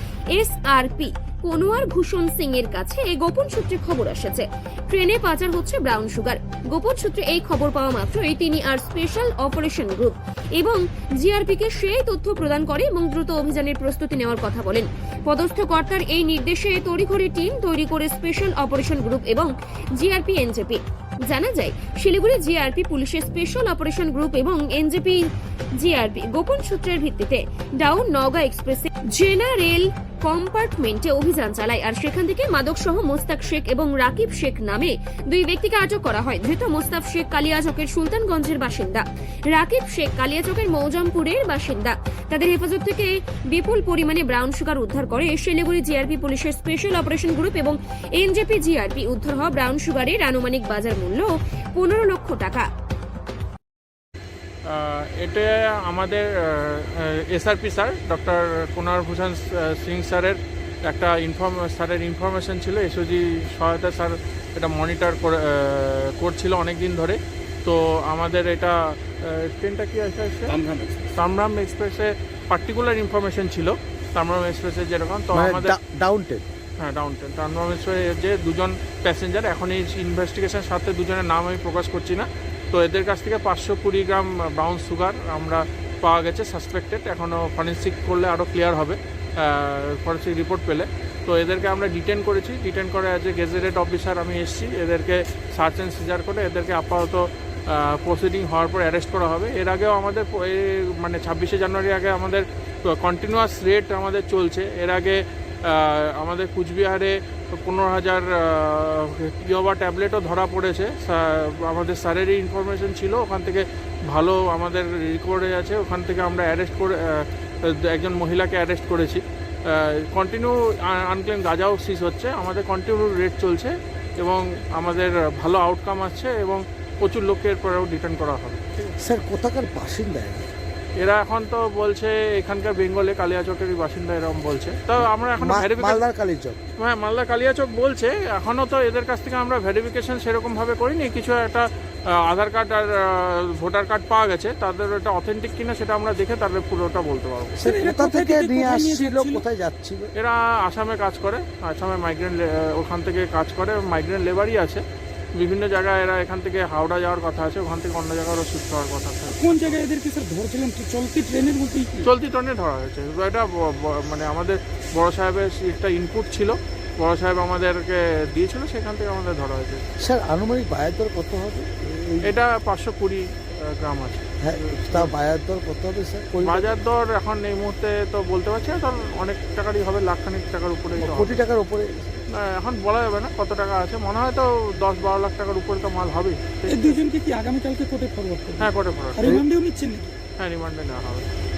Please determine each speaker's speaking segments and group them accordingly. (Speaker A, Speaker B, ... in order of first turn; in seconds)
Speaker A: 0.3-25.3, 25.8-52.7
Speaker B: 54.7-70.5, 71.2-75.8, 76.8-128.9, 131.0-136.0, 136.8-147.6, 150.2-154.8, 155.4-159.8, 162.0-169.8, 172.2-175.1, 176.4-181.4, 182.3-187.0, 188.6-189.4, 190.4-191.3
Speaker C: 70.5-71.1, 147.6-149.4, 159.3-162.1, 186.7-190.2
Speaker D: 75.3-76.5, 129.0-130.4, 135.4-136.6, 147.6-150.1, 170.0-172.3, 174.4-176.8, 181.0-182.2